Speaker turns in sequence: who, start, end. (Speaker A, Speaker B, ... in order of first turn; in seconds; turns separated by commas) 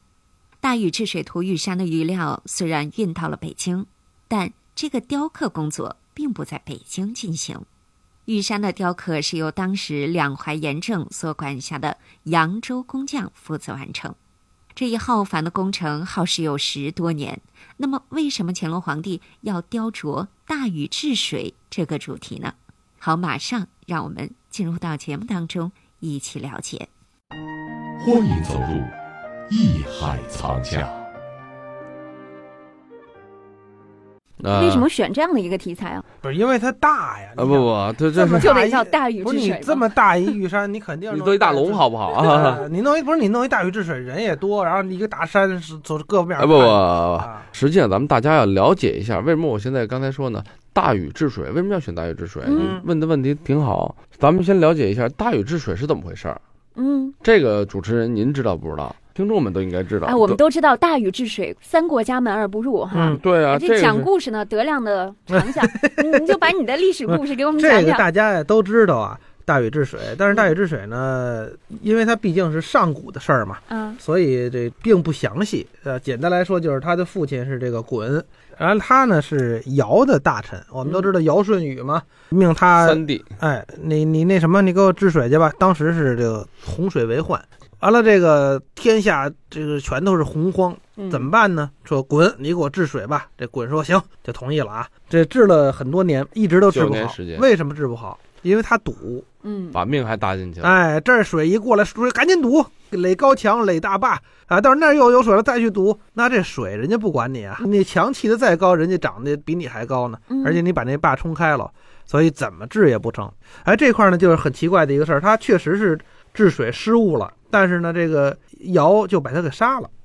Speaker A: 0.6-7.7, Speaker A: 8.3-14.2, Speaker A: 14.8-26.9, Speaker B: 28.0-28.9, Speaker B: 29.5-31.0, Speaker C: 34.4-34.9, Speaker D: 34.5-36.0, Speaker E: 36.2-47.5, Speaker C: 37.4-38.5, Speaker D: 38.4-39.9, Speaker C: 41.1-42.6, Speaker C: 46.4-56.4, Speaker D: 52.5-52.8, Speaker E: 52.5-52.8, Speaker D: 56.8-57.1, Speaker C: 57.2-60.4, Speaker D: 60.0-68.0, Speaker E: 62.9-63.2, Speaker C: 63.1-64.1, Speaker E: 65.4-66.1, Speaker E: 67.1-99.3, Speaker D: 73.7-74.0, Speaker C: 82.8-83.3, Speaker D: 91.0-91.3, Speaker C: 96.7-97.5, Speaker D: 99.4-99.8, Speaker C: 99.7-100.8, Speaker E: 100.6-119.9, Speaker D: 110.3-110.6